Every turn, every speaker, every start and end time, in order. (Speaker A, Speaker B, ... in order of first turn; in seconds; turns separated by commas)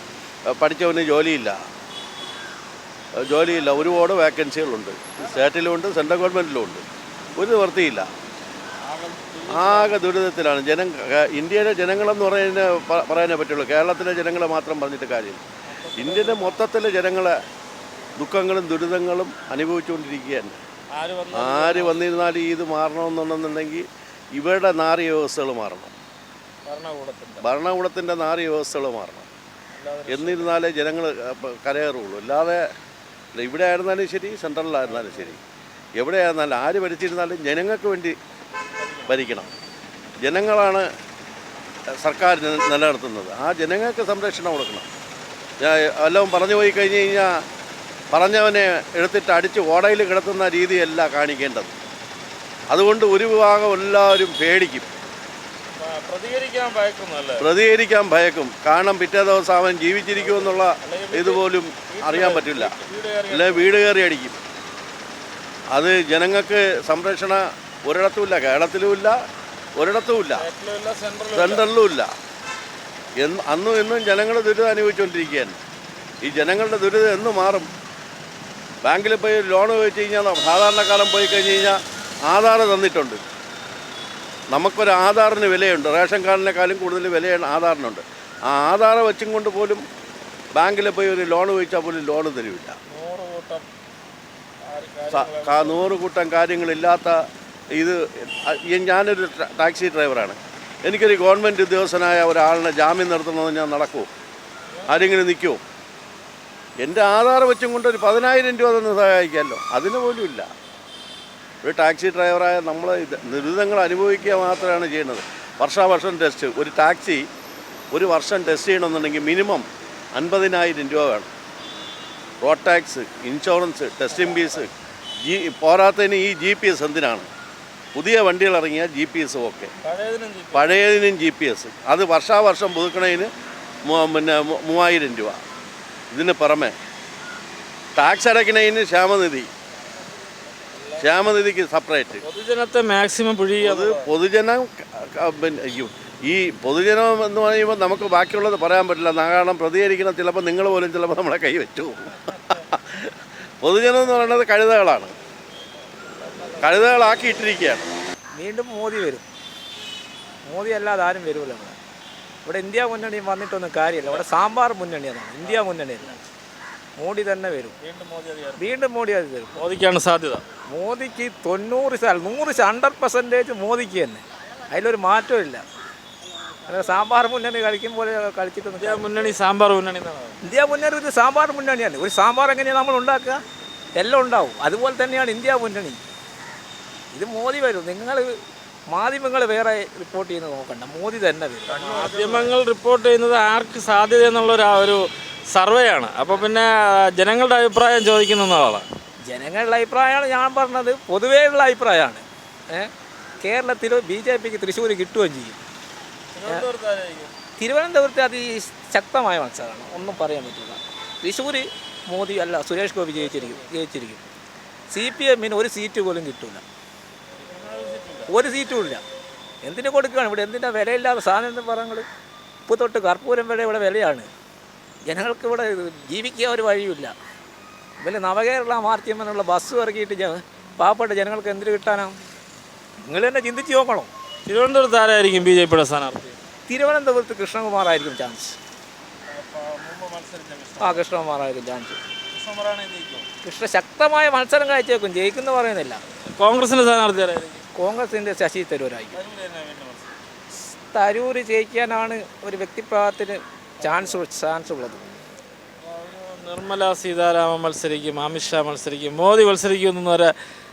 Speaker A: 0.5-1.6, Speaker A: 3.2-6.8, Speaker A: 7.4-8.1, Speaker B: 9.1-10.0, Speaker A: 9.5-15.4, Speaker B: 15.7-16.6, Speaker A: 16.0-17.4, Speaker A: 18.2-20.6, Speaker B: 20.9-22.0, Speaker A: 21.3-25.9, Speaker B: 26.6-27.5, Speaker A: 27.4-29.3, Speaker B: 29.7-30.6, Speaker A: 30.1-32.6, Speaker A: 33.4-35.4, Speaker B: 34.8-35.3, Speaker A: 36.0-38.1, Speaker B: 38.8-39.3, Speaker A: 39.1-39.5, Speaker A: 40.2-40.9, Speaker A: 42.0-44.9, Speaker A: 45.6-47.3, Speaker A: 48.1-51.7, Speaker A: 52.7-54.9, Speaker B: 55.8-57.5, Speaker A: 57.4-64.4, Speaker B: 60.1-63.8, Speaker A: 65.8-69.1, Speaker A: 69.8-70.5, Speaker B: 70.3-71.7, Speaker A: 71.3-72.1, Speaker A: 73.2-75.6, Speaker A: 76.2-77.7, Speaker A: 78.8-81.8, Speaker A: 82.3-83.2, Speaker A: 84.5-89.8, Speaker A: 90.5-92.8, Speaker B: 92.9-93.7, Speaker B: 94.7-95.9, Speaker A: 95.1-97.1, Speaker A: 98.5-104.1, Speaker B: 104.8-105.1, Speaker A: 104.9-105.6, Speaker A: 106.8-110.5, Speaker A: 111.7-117.2, Speaker A: 117.9-119.7, Speaker A: 120.2-121.3, Speaker A: 122.4-124.7, Speaker A: 125.2-127.3, Speaker A: 128.0-129.7, Speaker B: 129.8-130.7, Speaker A: 130.5-133.3, Speaker A: 133.9-135.4, Speaker A: 136.1-136.7, Speaker A: 138.0-139.5, Speaker A: 141.0-142.2, Speaker B: 142.2-144.1, Speaker A: 143.6-144.6, Speaker A: 145.2-153.1, Speaker A: 153.6-155.1, Speaker A: 156.6-157.9, Speaker C: 158.4-159.2, Speaker C: 160.5-161.8, Speaker C: 162.5-166.2, Speaker B: 165.5-166.2, Speaker C: 167.0-167.8, Speaker B: 167.8-168.8, Speaker C: 168.6-169.7, Speaker B: 169.6-170.4, Speaker C: 170.7-175.6, Speaker C: 176.7-179.3, Speaker B: 178.8-180.3, Speaker C: 180.4-183.4, Speaker C: 183.9-186.0, Speaker C: 187.1-188.3, Speaker C: 188.9-192.5, Speaker B: 191.7-198.9, Speaker C: 199.3-202.9, Speaker C: 203.4-205.6, Speaker B: 206.3-207.3, Speaker C: 207.6-214.2, Speaker B: 213.3-213.7, Speaker C: 214.9-216.6, Speaker B: 217.6-218.3, Speaker C: 218.3-219.0, Speaker C: 219.6-222.1, Speaker C: 222.7-224.3, Speaker C: 225.1-227.1, Speaker C: 228.0-232.2, Speaker C: 233.0-234.1, Speaker B: 234.4-236.4, Speaker C: 236.7-238.6, Speaker B: 239.3-241.0, Speaker C: 240.8-242.0, Speaker B: 242.3-243.2, Speaker C: 243.4-246.0, Speaker B: 246.3-247.6, Speaker C: 247.8-249.2, Speaker B: 249.2-250.1, Speaker C: 250.9-255.0, Speaker B: 253.8-254.1, Speaker B: 255.8-260.3